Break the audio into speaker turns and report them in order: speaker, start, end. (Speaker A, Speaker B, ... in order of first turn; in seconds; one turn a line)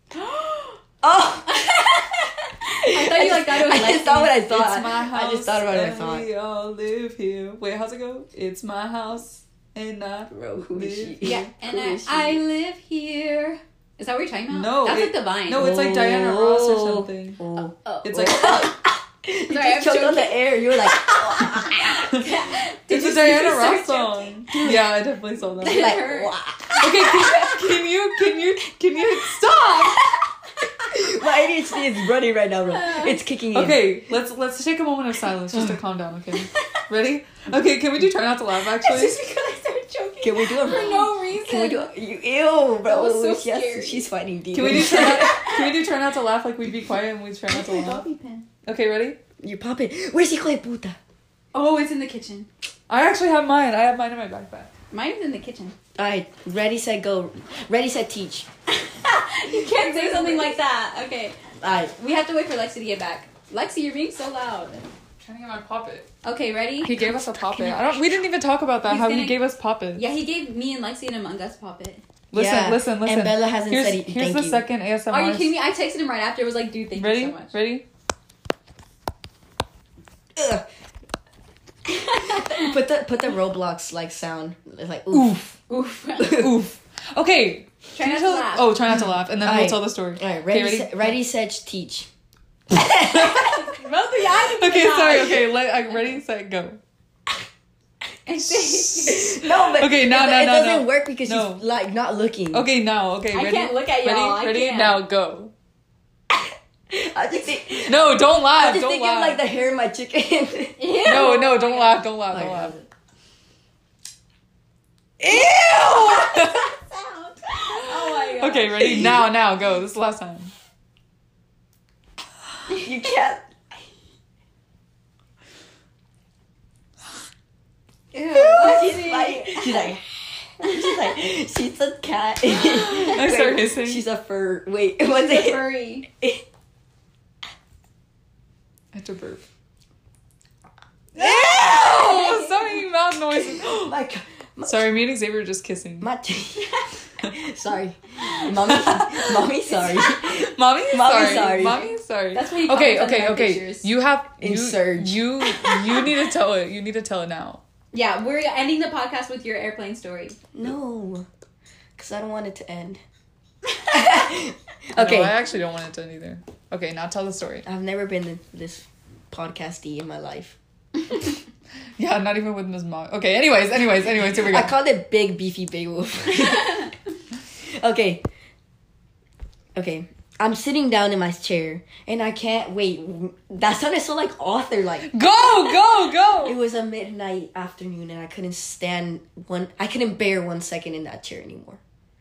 Speaker A: 0.1-0.8
Speaker B: 1.0-1.7
Speaker A: 1.5-4.4
Speaker B: 2.9-6.3
Speaker C: 4.5-11.5
Speaker B: 10.3-12.4
Speaker A: 11.2-15.7
Speaker C: 14.5-17.4
Speaker B: 15.5-22.1
Speaker A: 17.8-18.8
Speaker C: 18.0-18.7
Speaker A: 19.4-24.8
Speaker C: 22.0-22.3
Speaker C: 22.9-26.0
Speaker A: 25.6-27.7
Speaker B: 25.6-26.8
Speaker C: 26.8-30.0
Speaker A: 29.4-30.9
Speaker B: 30.9-33.9
Speaker A: 32.7-33.2
Speaker C: 33.5-39.2
Speaker A: 38.7-41.9
Speaker B: 40.2-45.4
Speaker A: 42.8-44.1
Speaker C: 44.5-48.0
Speaker A: 44.6-45.8
Speaker A: 47.5-48.5
Speaker C: 48.6-49.2
Speaker B: 49.4-51.0
Speaker A: 51.5-52.5
Speaker C: 52.9-54.7
Speaker A: 54.9-55.8
Speaker B: 56.0-58.5
Speaker A: 58.8-61.4
Speaker C: 59.8-60.5
Speaker B: 61.6-61.9
Speaker A: 62.0-64.9
Speaker C: 65.2-66.1
Speaker A: 66.2-67.9
Speaker C: 66.8-70.0
Speaker A: 68.8-72.0
Speaker C: 72.3-75.6
Speaker B: 72.3-74.6
Speaker A: 75.1-77.5
Speaker C: 77.0-77.8
Speaker B: 80.4-80.7
Speaker A: 81.9-82.8
Speaker B: 82.4-85.4
Speaker C: 85.1-85.6
Speaker A: 85.7-86.5
Speaker B: 86.2-86.5
Speaker C: 86.2-91.2
Speaker A: 88.0-88.8
Speaker B: 89.3-92.1
Speaker B: 92.7-93.7
Speaker C: 93.0-93.5
Speaker A: 93.5-96.2
Speaker C: 94.4-96.8
Speaker A: 98.3-99.4
Speaker C: 98.3-101.6
Speaker B: 99.1-102.7
Speaker C: 102.5-105.5
Speaker A: 103.3-105.0
Speaker B: 106.3-111.3
Speaker C: 107.9-109.4
Speaker A: 110.8-112.1
Speaker C: 111.0-112.8
Speaker B: 112.3-112.9
Speaker B: 115.2-116.3
Speaker C: 115.2-116.7
Speaker A: 116.0-119.1
Speaker C: 117.7-120.5
Speaker B: 122.8-123.4
Speaker A: 128.1-130.0
Speaker B: 128.3-130.0
Speaker B: 130.6-136.4
Speaker A: 130.6-130.9
Speaker C: 132.5-134.0
Speaker A: 135.1-136.1
Speaker C: 138.9-139.4
Speaker C: 141.2-143.9
Speaker A: 141.2-142.5
Speaker B: 143.6-144.9
Speaker C: 144.6-146.1
Speaker B: 146.0-146.8
Speaker B: 147.3-151.8
Speaker C: 148.6-149.2
Speaker A: 149.7-150.4
Speaker C: 150.4-157.6
Speaker A: 151.1-153.9
Speaker B: 154.4-155.3
Speaker A: 155.5-156.0
Speaker A: 157.9-160.4
Speaker B: 160.5-161.3
Speaker B: 162.0-163.0
Speaker B: 163.9-165.4
Speaker C: 165.0-167.7
Speaker B: 167.7-170.6
Speaker C: 172.0-174.7
Speaker B: 174.5-176.9
Speaker B: 177.7-178.2
Speaker B: 179.8-185.1
Speaker C: 185.1-186.6
Speaker B: 186.4-191.8